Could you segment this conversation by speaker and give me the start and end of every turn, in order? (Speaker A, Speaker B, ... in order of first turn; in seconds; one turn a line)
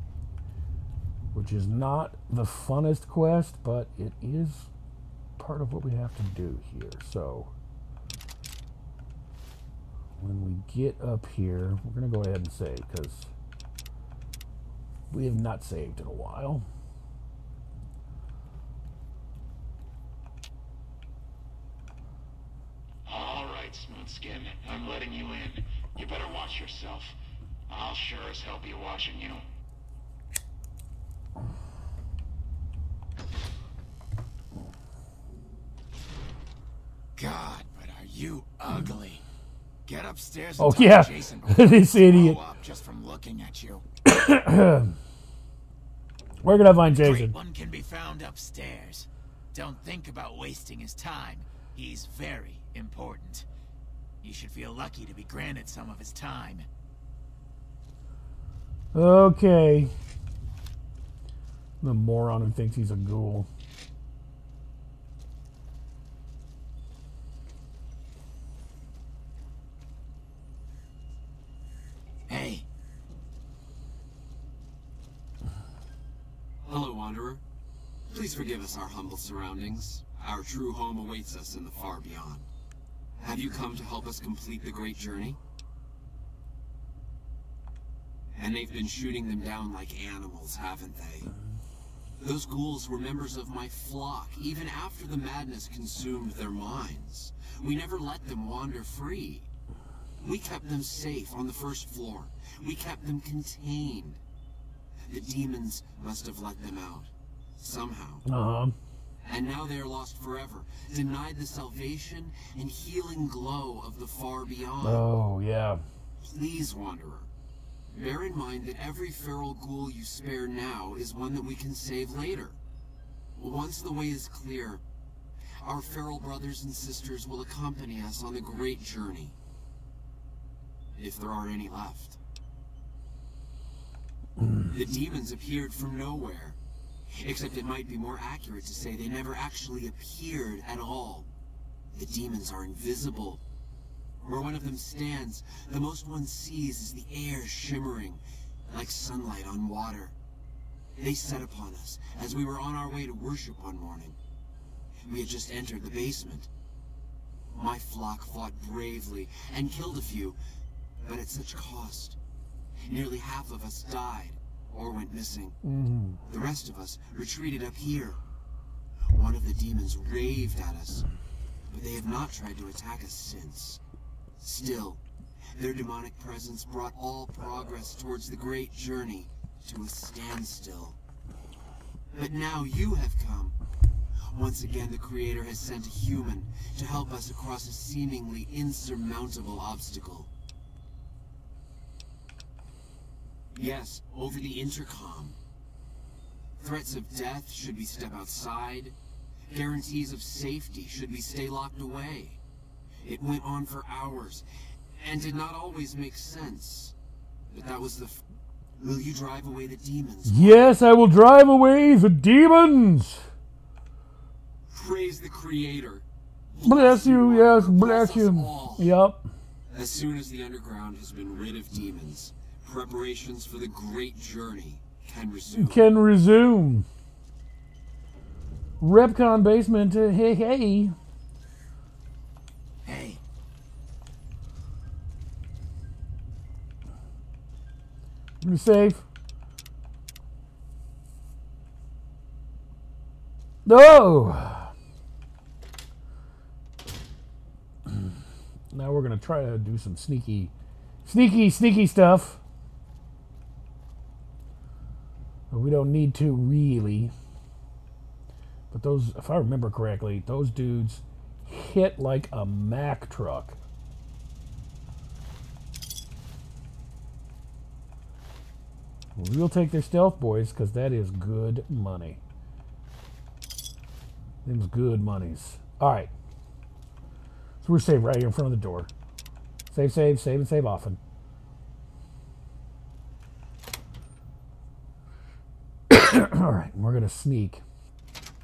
Speaker A: 1.3-4.7
Speaker A: 5.4-7.5
Speaker A: 10.2-13.3
Speaker A: 15.1-16.6
Speaker B: 23.1-27.1
Speaker B: 27.7-29.4
Speaker C: 37.1-39.2
Speaker C: 39.9-43.8
Speaker A: 40.6-42.4
Speaker A: 44.0-44.9
Speaker A: 46.4-47.3
Speaker C: 47.0-53.5
Speaker C: 54.2-56.7
Speaker A: 58.9-59.9
Speaker A: 61.8-63.5
Speaker C: 72.3-72.6
Speaker D: 76.6-77.4
Speaker D: 78.1-82.5
Speaker D: 83.2-85.4
Speaker D: 88.3-91.3
Speaker D: 92.2-99.5
Speaker D: 100.2-104.2
Speaker D: 105.1-108.2
Speaker A: 108.2-108.8
Speaker D: 109.2-115.1
Speaker A: 114.8-115.8
Speaker D: 116.2-117.3
Speaker D: 117.9-122.6
Speaker D: 123.3-124.8
Speaker D: 125.6-129.3
Speaker D: 130.9-132.2
Speaker D: 134.7-136.6
Speaker D: 137.1-141.3
Speaker D: 141.9-143.4
Speaker D: 144.2-150.1
Speaker D: 151.0-154.2
Speaker D: 155.1-156.5
Speaker D: 157.5-160.4
Speaker D: 161.0-162.2
Speaker D: 162.8-165.6
Speaker A: 165.6-166.2
Speaker D: 166.2-168.2
Speaker D: 169.1-171.1
Speaker D: 171.7-173.8
Speaker D: 174.4-175.0
Speaker D: 175.5-181.0
Speaker D: 182.1-183.6
Speaker D: 184.3-190.3
Speaker D: 193.5-195.4
Speaker D: 196.6-198.9
Speaker D: 199.5-202.4
Speaker D: 203.0-204.4
Speaker D: 205.0-206.9
Speaker D: 207.5-208.2
Speaker D: 208.8-210.7
Speaker A: 210.2-213.2
Speaker D: 214.7-218.9
Speaker A: 216.6-219.3
Speaker D: 219.7-225.9
Speaker A: 225.5-226.9
Speaker A: 228.8-230.9
Speaker C: 232.8-233.2
Speaker A: 238.4-239.0
Speaker A: 243.6-244.7
Speaker A: 247.8-248.2
Speaker A: 248.7-250.5
Speaker A: 251.0-252.4
Speaker A: 255.5-257.1
Speaker A: 258.7-263.6
Speaker A: 269.1-272.2
Speaker A: 274.4-276.1
Speaker A: 277.6-278.9
Speaker A: 279.7-281.0
Speaker A: 285.9-287.6